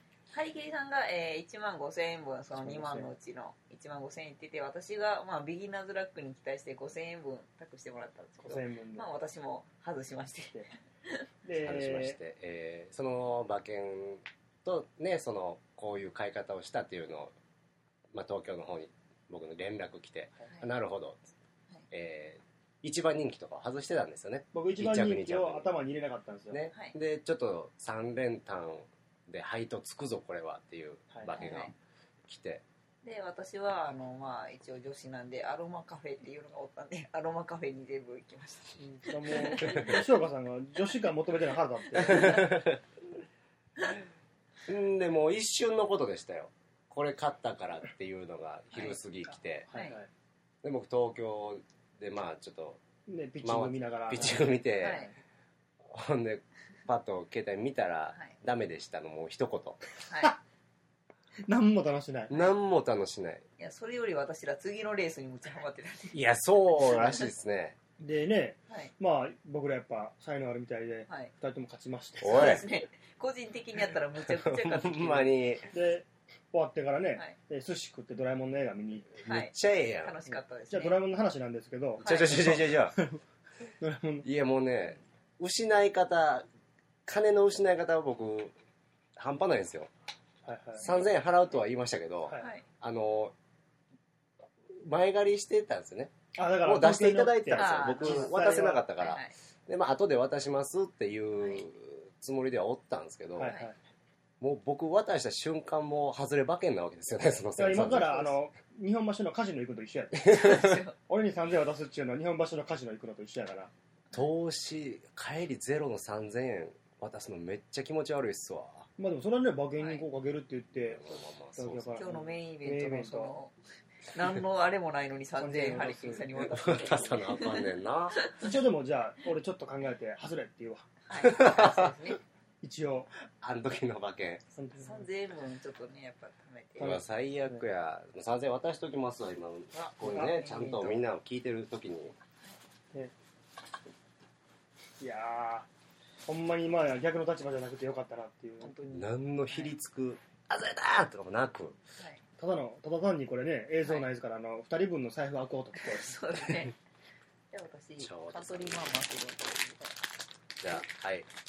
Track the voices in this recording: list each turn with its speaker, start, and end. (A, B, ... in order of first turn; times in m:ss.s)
0:00.3-0:11.2 A
0:02.6-0:03.1 B
0:08.4-0:09.1 B
0:11.4-0:12.2 B
0:11.6-0:17.3 C
0:18.1-0:21.2 C
0:21.9-0:25.7 C
0:24.5-0:26.6 B
0:26.5-0:31.7 C
0:31.1-0:31.4 B
0:31.4-0:31.7 A
0:32.3-0:32.6 C
0:33.0-0:40.0 A
0:38.8-0:42.5 B
0:39.6-0:40.0 C
0:42.1-0:42.8 C
0:42.1-0:42.4 A
0:44.7-0:49.7 C
0:48.7-0:49.0 A
0:49.7-0:50.1 B
0:49.7-0:50.0 A
0:50.6-0:52.8 C
0:53.1-0:54.5 B
0:53.4-0:55.1 C
0:54.8-0:55.1 A
0:55.8-0:59.8 C
1:00.1-1:00.4 A
1:01.5-1:02.3 B
1:02.3-1:03.4 C
1:03.6-1:07.3 A
1:06.1-1:07.8 C
1:08.0-1:12.6 B
1:12.2-1:12.6 C
1:12.2-1:15.3 A
1:14.2-1:15.7 C
1:15.7-1:19.2 B
1:19.2-1:21.0 A
1:19.2-1:20.2 C
1:20.3-1:23.2 B
1:22.0-1:22.6 A
1:22.0-1:23.0 C
1:23.8-1:24.3 B
1:24.2-1:26.5 C
1:27.0-1:28.5 C
1:29.2-1:29.9 C
1:30.4-1:30.9 B
1:30.8-1:33.3 C
1:32.4-1:32.6 A
1:34.8-1:43.6 C
1:36.4-1:38.9 B
1:37.6-1:39.3 A
1:43.4-1:43.7 B
1:44.4-1:48.3 C
1:47.6-1:53.7 B
1:50.2-1:50.8 C
1:50.3-1:51.0 A
1:54.1-1:58.9 C
1:59.0-2:01.0 B
1:59.8-2:00.0 A
2:00.9-2:02.0 C
2:01.6-2:03.4 B
2:02.0-2:03.5 A
2:04.1-2:08.5 A
2:05.4-2:06.9 B
2:06.4-2:08.2 C
2:08.4-2:10.9 B
2:11.1-2:12.2 A
2:11.2-2:11.9 C
2:12.6-2:13.1 B
2:13.4-2:14.4 C
2:14.6-2:15.1 B
2:14.8-2:17.0 A
2:16.8-2:17.6 B
2:16.8-2:22.2 C
2:19.7-2:21.0 A
2:25.0-2:25.7 B
2:26.3-2:28.7 B
2:28.6-2:29.7 A
2:28.9-2:31.8 C
2:32.4-2:36.1 B
2:33.8-2:34.1 A
2:35.8-2:36.8 A
2:37.5-2:40.0 A
2:38.0-2:38.8 C
2:40.6-2:41.3 C